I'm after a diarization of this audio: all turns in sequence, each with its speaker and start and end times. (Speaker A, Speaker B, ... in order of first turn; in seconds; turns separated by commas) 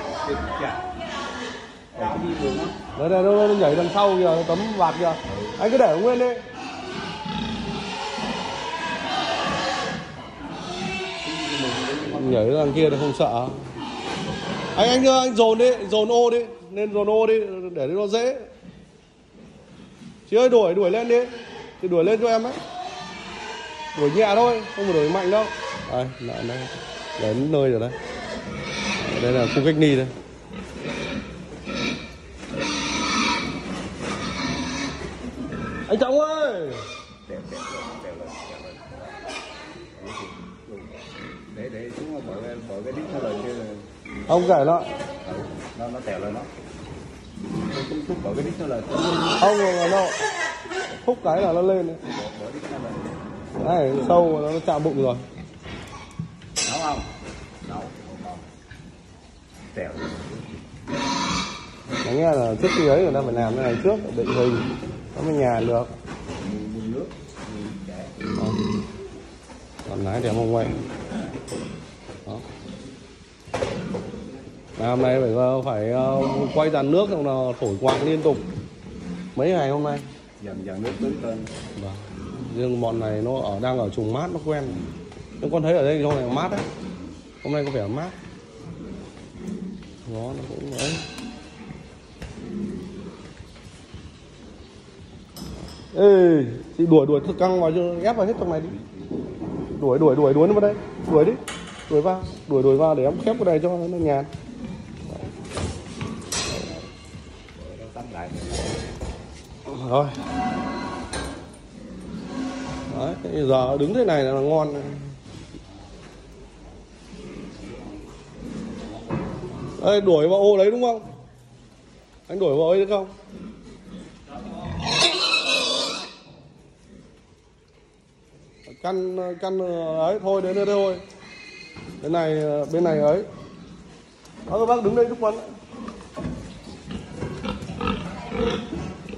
Speaker A: 0.2-0.8, Speaker A: 1.9-2.8, Speaker B: 3.0-6.4, Speaker A: 5.3-5.6, Speaker A: 11.2-12.4, Speaker B: 12.1-13.6, Speaker B: 14.7-18.5, Speaker B: 20.3-22.6, Speaker B: 23.9-27.9, Speaker B: 29.0-30.1, Speaker B: 35.9-36.8, Speaker A: 37.3-38.9, Speaker A: 40.0-41.0, Speaker A: 41.5-43.9, Speaker B: 44.3-44.9, Speaker A: 45.2-46.5, Speaker A: 47.7-49.4, Speaker B: 49.4-50.2, Speaker B: 51.0-52.0, Speaker A: 52.1-53.1, Speaker B: 53.6-55.2, Speaker A: 56.6-57.1, Speaker A: 57.6-58.5, Speaker A: 59.7-60.5, Speaker B: 62.0-65.9, Speaker A: 66.4-68.3, Speaker B: 69.9-70.8, Speaker B: 74.8-78.5, Speaker B: 79.3-80.0, Speaker A: 80.4-81.5, Speaker B: 81.8-84.8, Speaker B: 85.4-86.6, Speaker B: 87.4-88.2, Speaker B: 90.1-91.0, Speaker B: 95.9-98.7, Speaker B: 99.8-104.3, Speaker A: 107.6-108.7, Speaker B: 109.7-110.2, Speaker B: 112.9-115.1, Speaker B: 119.8-121.0, Speaker B: 122.3-123.1, Speaker B: 128.7-131.0, Speaker B: 132.0-133.3, Speaker B: 134.5-135.5